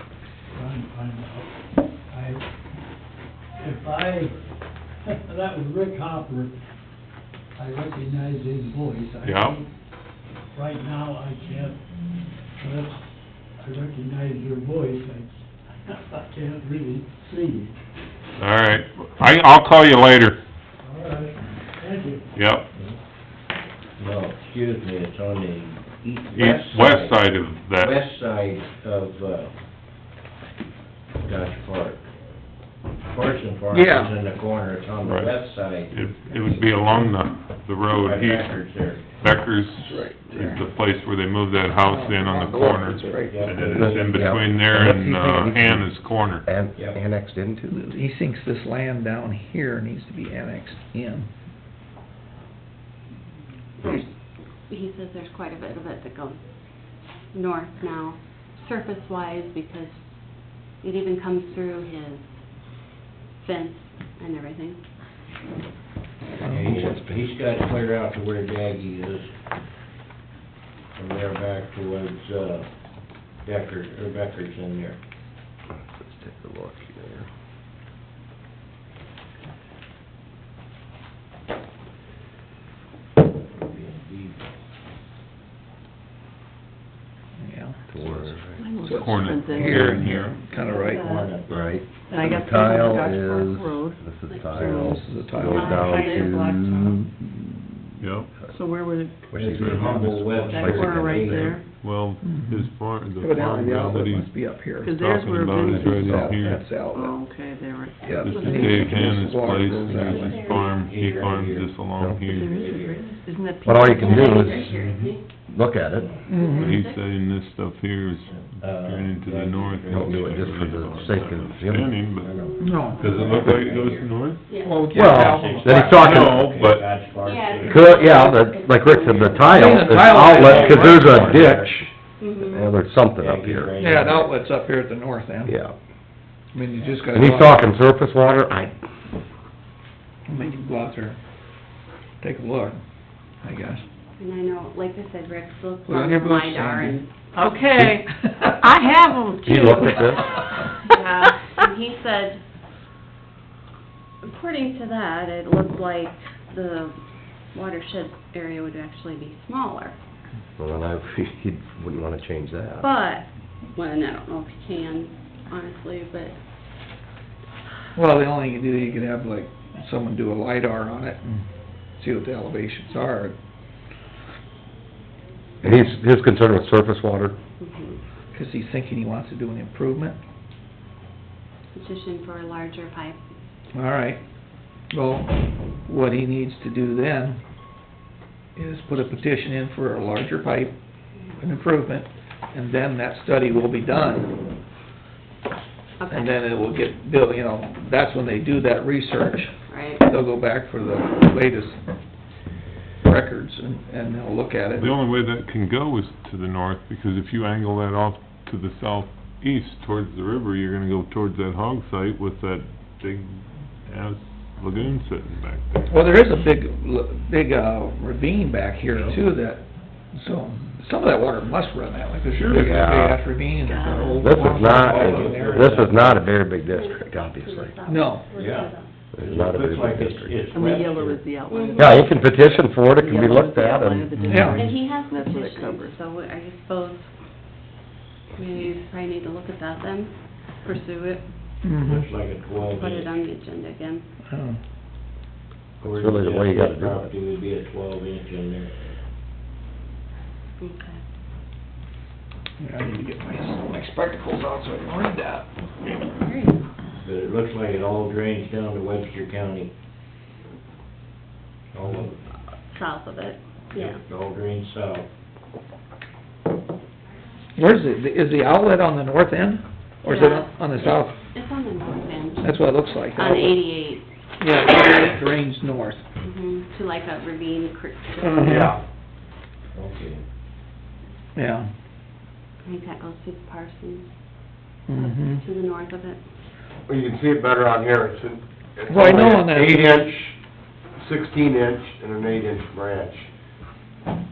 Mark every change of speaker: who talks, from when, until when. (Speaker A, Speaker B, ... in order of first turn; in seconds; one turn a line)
Speaker A: 0.5-1.5
Speaker A: 2.1-2.4
Speaker A: 3.6-4.4
Speaker A: 5.1-6.5
Speaker A: 7.6-9.7
Speaker B: 9.2-9.6
Speaker A: 10.5-11.8
Speaker A: 12.6-13.0
Speaker A: 13.6-17.7
Speaker B: 18.4-20.4
Speaker A: 20.8-22.2
Speaker B: 22.4-22.7
Speaker C: 24.0-29.5
Speaker B: 26.3-28.0
Speaker C: 31.2-32.0
Speaker C: 33.1-36.7
Speaker D: 33.7-34.2
Speaker B: 35.0-38.6
Speaker C: 37.9-39.0
Speaker B: 39.2-46.5
Speaker D: 39.8-40.6
Speaker D: 41.8-44.0
Speaker C: 43.3-44.5
Speaker E: 43.7-47.7
Speaker D: 47.7-51.3
Speaker F: 53.8-54.1
Speaker F: 54.7-56.4
Speaker F: 57.3-60.1
Speaker F: 60.8-62.3
Speaker F: 63.4-64.8
Speaker D: 66.4-67.1
Speaker C: 66.4-69.3
Speaker C: 71.0-72.7
Speaker C: 73.4-75.0
Speaker E: 76.0-77.3
Speaker C: 83.5-84.4
Speaker D: 87.4-91.1
Speaker E: 87.9-88.7
Speaker G: 88.6-90.1
Speaker B: 89.0-90.4
Speaker F: 90.6-91.2
Speaker C: 90.9-91.7
Speaker E: 91.5-97.1
Speaker G: 92.1-95.0
Speaker F: 94.3-94.5
Speaker D: 94.8-96.0
Speaker F: 95.5-96.4
Speaker G: 95.7-97.0
Speaker B: 98.0-98.3
Speaker G: 98.5-99.8
Speaker E: 99.3-101.5
Speaker C: 99.3-101.6
Speaker G: 100.4-101.6
Speaker B: 101.7-104.3
Speaker D: 102.2-102.7
Speaker D: 103.2-107.2
Speaker G: 103.5-103.9
Speaker G: 104.8-108.8
Speaker B: 105.0-106.7
Speaker D: 108.0-110.3
Speaker B: 108.3-112.6
Speaker C: 110.0-111.8
Speaker F: 110.1-110.7
Speaker E: 112.0-112.2
Speaker G: 112.3-114.5
Speaker C: 112.4-113.1
Speaker E: 113.6-114.7
Speaker F: 114.0-115.2
Speaker C: 114.7-115.1
Speaker E: 115.5-116.1
Speaker D: 116.3-116.8
Speaker F: 116.4-117.0
Speaker B: 116.5-127.3
Speaker C: 118.3-120.7
Speaker E: 119.9-121.9
Speaker C: 122.1-124.1
Speaker D: 122.6-123.4
Speaker F: 123.0-123.3
Speaker F: 124.5-124.9
Speaker D: 124.7-126.0
Speaker E: 124.9-126.4
Speaker C: 125.2-128.0
Speaker F: 127.2-130.7
Speaker E: 127.7-133.8
Speaker D: 129.5-131.6
Speaker C: 130.3-131.8
Speaker F: 132.2-132.7
Speaker C: 133.2-134.4
Speaker D: 133.8-135.6
Speaker E: 135.5-135.8
Speaker D: 136.5-137.8
Speaker E: 137.1-138.8
Speaker D: 140.3-141.2
Speaker D: 142.2-142.8
Speaker D: 143.4-143.8
Speaker F: 144.2-147.1
Speaker D: 145.9-147.0
Speaker G: 147.3-150.2
Speaker D: 147.8-148.6
Speaker E: 149.4-150.2
Speaker F: 150.9-152.4
Speaker F: 154.2-157.0
Speaker F: 157.5-160.0
Speaker E: 160.6-162.9
Speaker F: 162.8-166.4
Speaker D: 167.9-171.4
Speaker D: 172.0-173.4
Speaker E: 175.6-177.4
Speaker F: 177.6-178.0
Speaker D: 178.3-180.2
Speaker F: 181.7-183.2
Speaker D: 183.7-184.2
Speaker D: 184.9-187.4
Speaker D: 188.6-190.7
Speaker D: 191.4-194.3
Speaker F: 196.0-196.4
Speaker D: 196.1-201.8
Speaker F: 199.7-200.1
Speaker D: 203.0-204.9
Speaker B: 204.8-216.2
Speaker D: 215.9-225.9
Speaker B: 222.3-222.8
Speaker E: 222.5-223.2
Speaker F: 223.7-224.2
Speaker E: 224.2-227.8
Speaker C: 224.7-226.2
Speaker F: 226.7-228.9
Speaker D: 227.9-228.3
Speaker C: 228.3-231.2
Speaker E: 229.1-230.4
Speaker G: 230.5-236.0
Speaker F: 231.5-232.0
Speaker E: 231.8-234.1
Speaker B: 234.2-234.6
Speaker D: 234.3-234.7
Speaker F: 234.5-237.1
Speaker F: 238.4-241.3
Speaker D: 241.6-242.1
Speaker C: 241.8-243.1
Speaker F: 242.8-244.1
Speaker D: 244.3-244.6
Speaker E: 245.8-247.1
Speaker C: 245.8-248.7
Speaker F: 250.6-251.0
Speaker D: 252.6-255.5
Speaker F: 256.2-256.6
Speaker C: 257.0-259.7
Speaker C: 261.7-262.2
Speaker F: 262.7-264.0
Speaker C: 263.7-265.1
Speaker D: 267.6-271.2
Speaker F: 270.1-274.1
Speaker D: 272.4-273.6
Speaker D: 274.4-276.0
Speaker F: 276.2-278.6
Speaker D: 278.3-278.8
Speaker C: 279.7-280.2
Speaker D: 281.4-281.7
Speaker F: 282.6-284.1
Speaker D: 284.9-285.4
Speaker F: 285.0-286.2
Speaker E: 286.9-288.4
Speaker H: 286.9-287.9
Speaker H: 288.8-290.3
Speaker D: 288.9-290.0
Speaker E: 288.9-290.2
Speaker E: 291.1-293.1
Speaker H: 291.8-293.1